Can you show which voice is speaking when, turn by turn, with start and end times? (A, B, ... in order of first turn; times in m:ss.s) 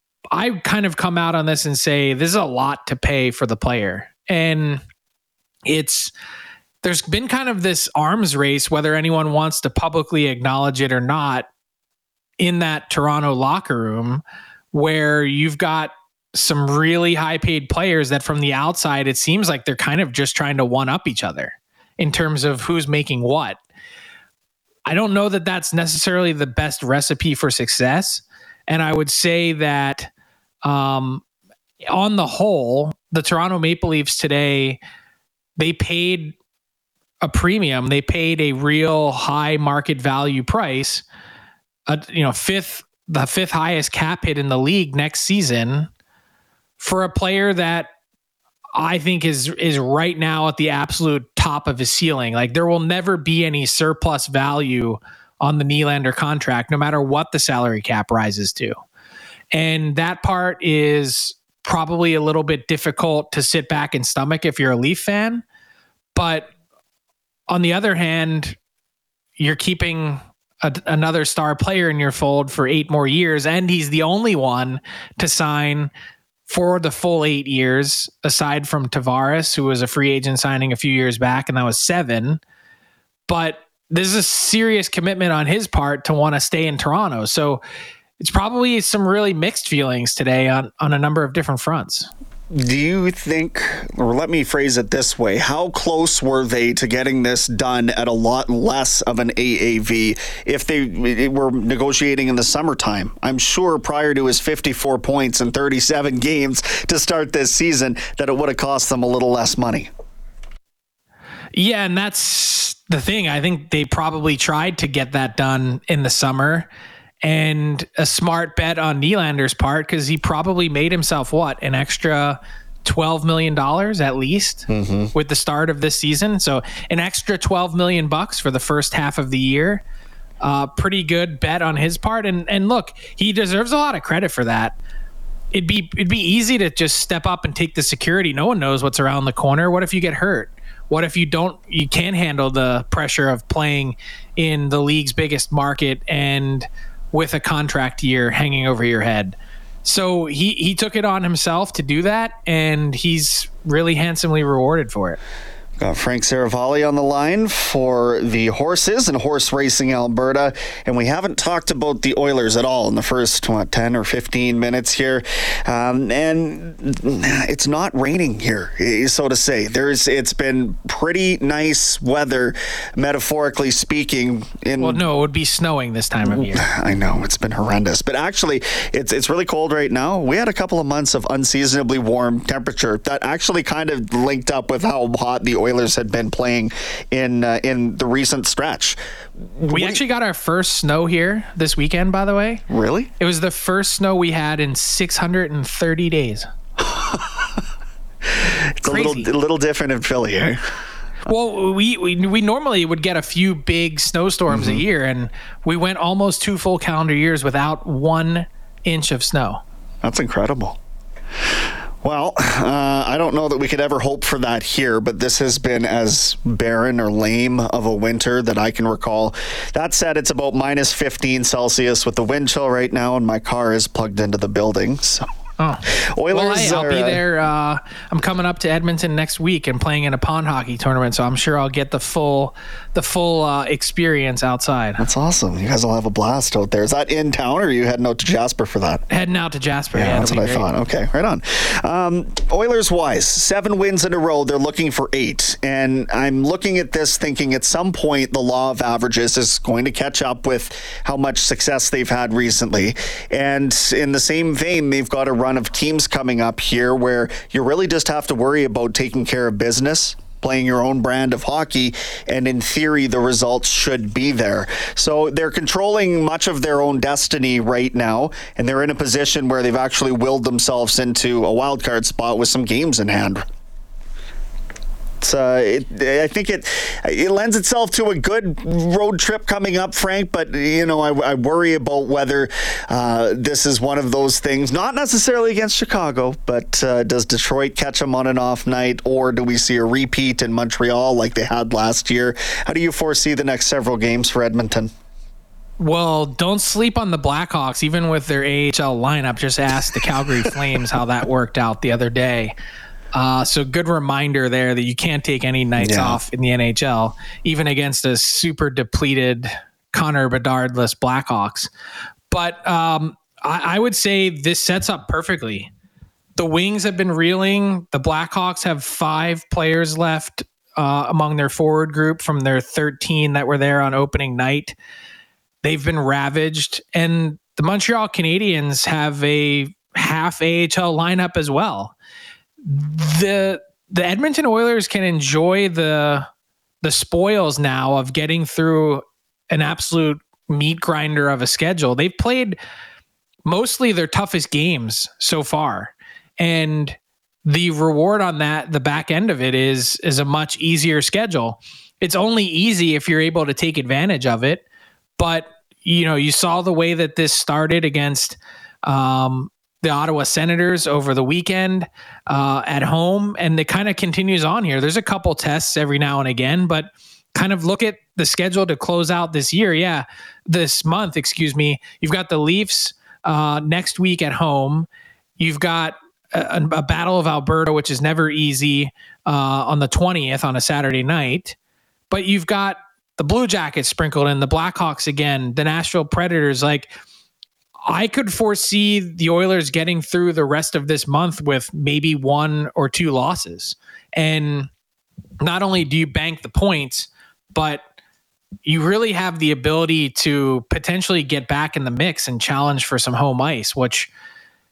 0:00.3-0:04.8 A
0:05.6-0:06.1 A
0:06.8-0:11.5 A
0:12.4-0:14.2 A
0:14.7-0:23.6 A
0:24.9-0:30.1 A
0:30.6-0:31.2 A
0:31.9-0:34.8 A
0:35.6-0:36.3 A
0:37.2-0:41.0 A
0:41.9-0:45.9 A
0:46.8-0:47.9 A
0:48.7-0:58.8 A
0:59.5-1:05.4 A
1:06.1-1:06.5 A
1:07.5-1:08.6 A
1:09.4-1:15.9 A
1:16.5-1:22.4 A
1:23.3-1:27.6 A
1:28.2-1:32.1 A
1:32.5-1:49.9 B
1:51.5-1:56.7 A
1:57.2-2:09.8 A
2:04.7-2:05.1 B
2:10.4-2:14.7 A
2:15.5-2:35.2 A
2:35.8-2:55.0 B
2:54.8-2:56.6 A
2:56.2-3:09.0 B
3:09.6-3:10.0 B
3:09.7-3:12.6 A
3:12.7-3:13.1 B
3:13.2-3:16.5 A
3:16.8-3:17.6 B
3:18.3-3:20.6 B
3:18.8-3:19.3 A
3:21.3-3:29.6 A
3:24.5-3:24.8 B
3:30.0-3:30.8 B
3:32.0-3:45.3 B
3:45.6-3:55.0 A
3:46.0-3:47.2 B
3:55.0-3:59.0 B
3:59.1-4:00.7 A
3:59.9-4:33.4 B
4:35.2-4:54.9 B
4:55.8-5:02.5 A
5:03.1-5:11.7 A
5:05.8-5:06.2 B
5:12.3-5:15.7 A
5:16.4-5:24.7 A
5:25.6-5:31.9 A
5:32.6-5:36.3 A
5:36.8-5:42.6 A
5:43.4-5:54.6 A
5:55.2-6:14.9 A
6:15.4-6:21.6 A
6:22.1-6:26.9 A
6:27.8-6:34.7 A
6:35.4-6:37.8 A
6:38.6-6:44.1 A